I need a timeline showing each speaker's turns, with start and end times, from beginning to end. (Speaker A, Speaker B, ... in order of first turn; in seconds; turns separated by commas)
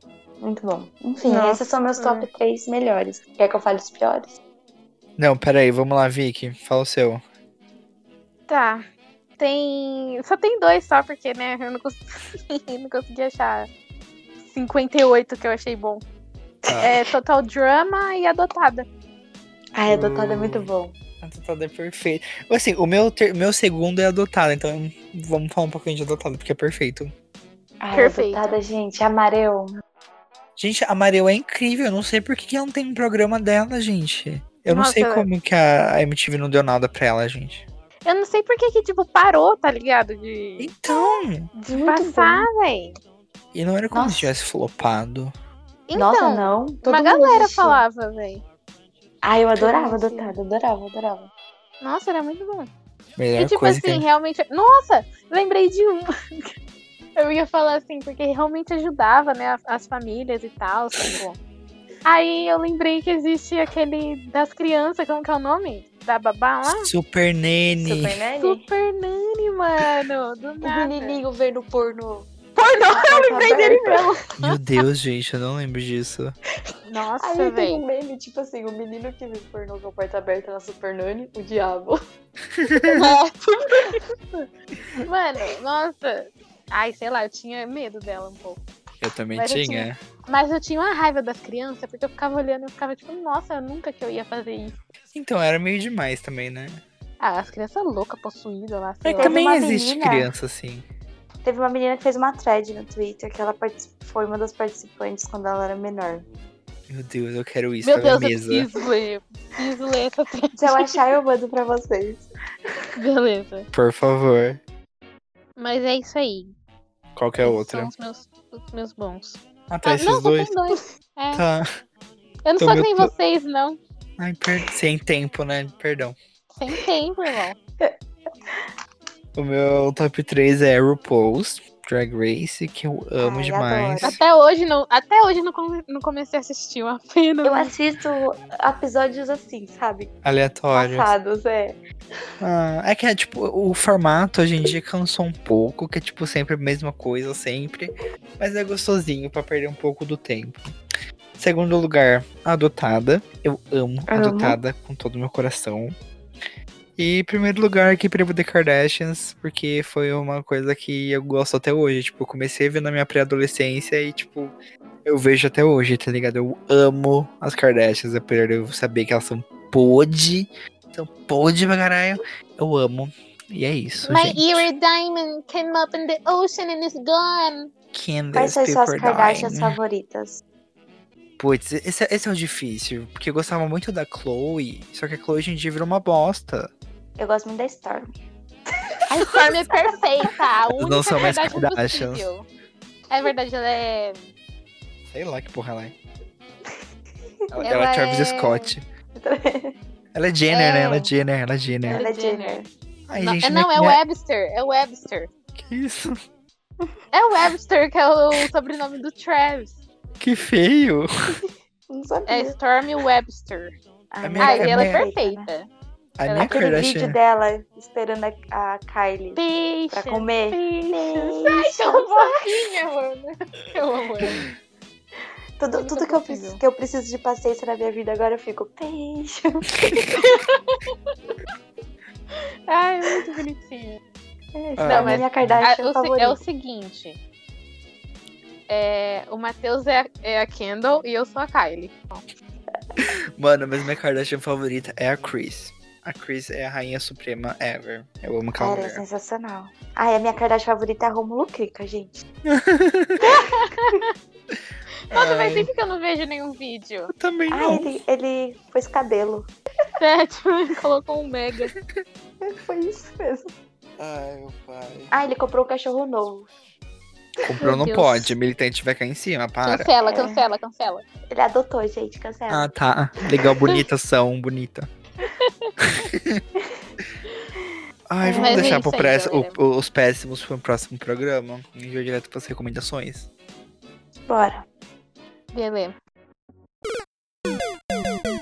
Speaker A: 0.4-4.3, Speaker B: 1.3-2.3, Speaker C: 5.2-7.2, Speaker B: 8.5-8.8, Speaker B: 9.4-13.7, Speaker B: 14.4-16.0, Speaker C: 16.7-16.9, Speaker B: 16.7-18.9, Speaker A: 19.8-21.0, Speaker C: 19.9-20.7, Speaker C: 21.2-27.1, Speaker A: 27.8-29.8, Speaker B: 27.9-28.5, Speaker C: 30.6-37.6, Speaker B: 34.7-35.3, Speaker B: 38.1-43.0, Speaker C: 40.6-41.5, Speaker A: 41.7-42.5, Speaker C: 43.5-45.3, Speaker A: 43.9-44.3, Speaker B: 45.9-48.4, Speaker A: 46.0-47.8, Speaker A: 49.2-51.3, Speaker B: 49.6-50.3, Speaker B: 51.8-52.7, Speaker C: 53.2-54.0, Speaker B: 53.4-56.5, Speaker B: 57.2-61.4, Speaker B: 62.1-66.9, Speaker C: 66.7-68.2, Speaker A: 67.8-68.7, Speaker B: 68.4-71.2, Speaker A: 70.6-72.3, Speaker B: 72.6-74.5, Speaker A: 72.9-74.1, Speaker C: 74.4-76.4, Speaker B: 76.9-77.8, Speaker A: 77.2-82.0, Speaker C: 82.6-83.0, Speaker B: 82.8-84.4, Speaker B: 85.1-88.7, Speaker C: 89.0-90.0, Speaker B: 89.4-94.7, Speaker C: 95.1-96.8, Speaker B: 97.2-99.4, Speaker C: 99.0-100.9, Speaker A: 99.2-100.3, Speaker A: 101.4-106.3, Speaker C: 106.9-108.7, Speaker B: 107.8-110.9, Speaker A: 110.6-112.2, Speaker B: 113.0-113.7, Speaker C: 113.7-114.6, Speaker B: 115.6-116.5, Speaker C: 117.2-117.9, Speaker B: 117.4-121.4, Speaker C: 119.7-120.5, Speaker C: 121.3-121.7, Speaker B: 122.5-123.8, Speaker C: 122.6-123.1, Speaker C: 124.2-126.2, Speaker B: 126.5-127.6, Speaker C: 129.4-134.2, Speaker A: 133.2-134.1, Speaker B: 134.0-137.7, Speaker A: 137.4-140.1, Speaker C: 140.2-141.1, Speaker A: 140.7-141.8, Speaker C: 142.4-150.6, Speaker C: 151.4-155.9, Speaker A: 154.1-154.6, Speaker C: 157.0-164.5, Speaker C: 165.1-174.7, Speaker B: 174.1-177.7, Speaker C: 177.9-179.8, Speaker A: 178.3-180.4, Speaker C: 181.4-186.7, Speaker A: 187.2-188.1, Speaker B: 189.1-192.5, Speaker C: 190.8-192.3, Speaker B: 193.1-194.3, Speaker C: 195.1-195.9, Speaker C: 197.5-198.8, Speaker B: 197.6-198.7, Speaker A: 199.2-199.8, Speaker C: 200.1-202.1, Speaker B: 200.5-201.1, Speaker B: 201.9-202.7, Speaker A: 201.9-202.7, Speaker C: 203.1-204.0, Speaker B: 203.2-205.3, Speaker C: 205.6-206.2, Speaker B: 207.1-209.8, Speaker C: 210.2-211.4, Speaker A: 211.9-212.6, Speaker B: 212.3-213.8, Speaker A: 214.1-215.5, Speaker C: 214.2-215.1, Speaker B: 214.4-215.7, Speaker C: 216.2-217.2, Speaker B: 216.3-216.6, Speaker A: 216.4-219.4, Speaker B: 219.3-224.4, Speaker A: 219.9-222.7, Speaker A: 225.6-229.7, Speaker B: 225.7-226.6, Speaker B: 229.9-230.9, Speaker B: 232.7-234.0, Speaker A: 234.6-236.4, Speaker C: 234.8-235.7, Speaker B: 234.9-237.2, Speaker B: 238.7-242.2, Speaker C: 243.0-249.0, Speaker A: 248.6-252.2, Speaker C: 252.5-253.2, Speaker B: 253.2-254.1, Speaker C: 255.1-255.7, Speaker B: 255.1-257.1, Speaker C: 257.1-257.9, Speaker A: 257.5-259.5, Speaker B: 260.0-261.7, Speaker A: 262.4-263.5, Speaker C: 264.0-265.1, Speaker A: 265.1-266.5, Speaker C: 267.4-269.9, Speaker B: 267.6-268.3, Speaker B: 269.6-271.1, Speaker A: 270.1-270.4, Speaker A: 271.3-272.7, Speaker C: 272.5-274.9, Speaker A: 273.4-273.7, Speaker B: 275.2-275.8, Speaker C: 275.8-276.4, Speaker A: 276.6-276.9, Speaker A: 277.6-278.9, Speaker C: 278.1-283.3, Speaker B: 278.4-279.6, Speaker A: 284.3-284.6, Speaker B: 285.5-285.9